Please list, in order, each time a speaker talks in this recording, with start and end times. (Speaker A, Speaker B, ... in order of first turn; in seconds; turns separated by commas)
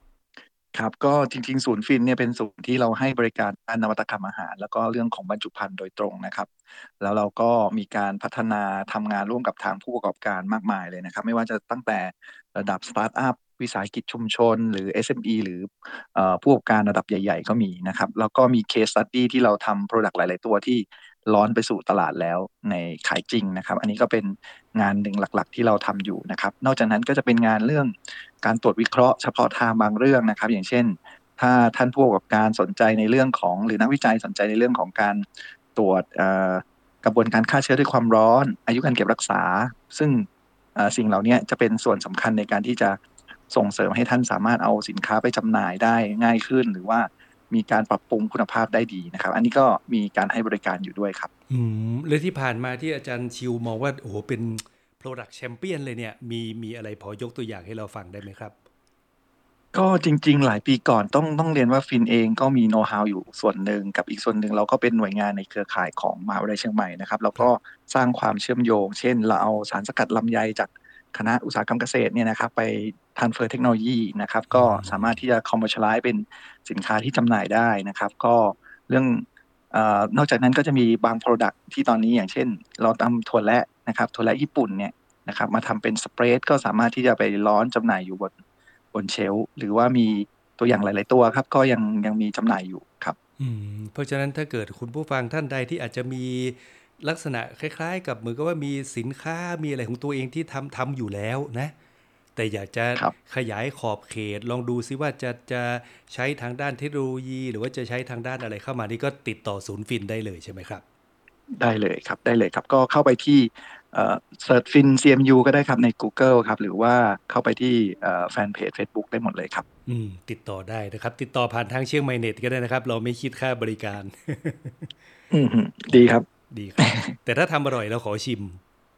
Speaker A: 0.7-51.3, Speaker B: 51.5-58.5, Speaker A: 59.7-88.3, Speaker B: 74.5-75.0, Speaker A: 88.9-93.2, Speaker B: 93.4-101.7, Speaker B: 102.4-110.8, Speaker A: 111.6-119.7, Speaker B: 119.9-124.9, Speaker A: 125.3-126.3, Speaker B: 125.9-128.6, Speaker A: 126.8-127.1